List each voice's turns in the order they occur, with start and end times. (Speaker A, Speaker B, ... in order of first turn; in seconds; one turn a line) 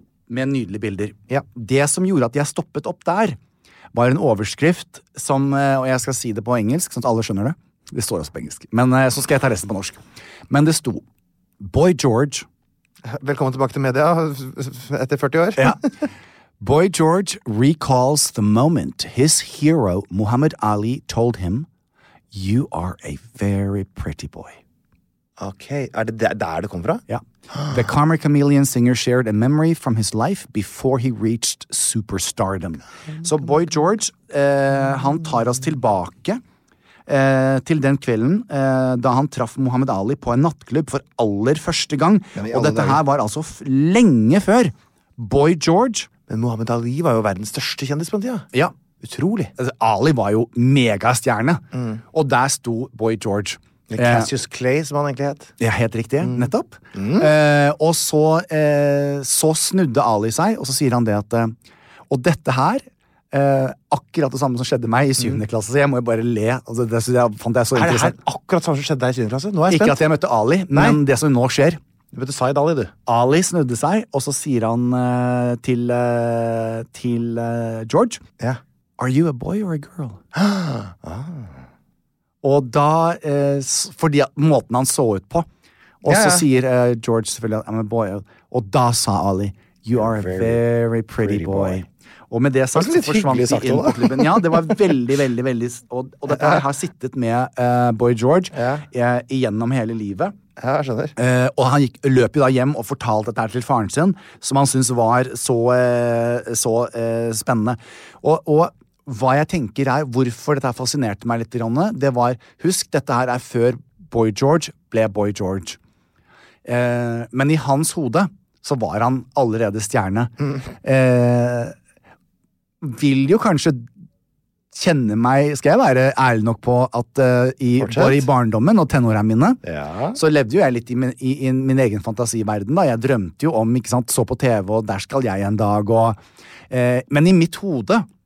Speaker A: 0.3-3.4
Speaker A: 3.9-10.0
Speaker A: 10.5-11.0
Speaker A: 11.6-12.4
Speaker B: 13.1-15.8
Speaker A: 15.6-15.8
Speaker A: 16.6-21.7
Speaker A: 22.3-24.6
Speaker B: 25.4-27.0
Speaker A: 27.1-36.4
Speaker A: 37.1-46.1
Speaker B: 42.3-43.0
Speaker B: 46.3-49.5
Speaker A: 49.6-54.3
Speaker B: 51.7-52.0
Speaker B: 53.9-55.5
Speaker A: 55.6-61.5
Speaker B: 56.2-57.3
Speaker A: 62.1-68.2
Speaker B: 67.7-70.0
Speaker A: 69.7-71.8
Speaker B: 70.7-71.0
Speaker B: 72.1-72.9
Speaker A: 73.1-78.2
Speaker A: 79.0-80.2
Speaker B: 80.3-81.5
Speaker A: 82.4-85.5
Speaker A: 86.0-100.3
Speaker B: 86.0-86.4
Speaker B: 90.0-90.6
Speaker B: 91.2-91.8
Speaker B: 92.7-94.7
Speaker B: 98.5-98.8
Speaker B: 100.6-101.1
Speaker A: 101.2-115.8
Speaker A: 116.6-121.8
Speaker A: 122.8-123.9
Speaker A: 124.7-129.6
Speaker B: 127.8-128.2
Speaker B: 129.6-130.2
Speaker A: 130.1-138.1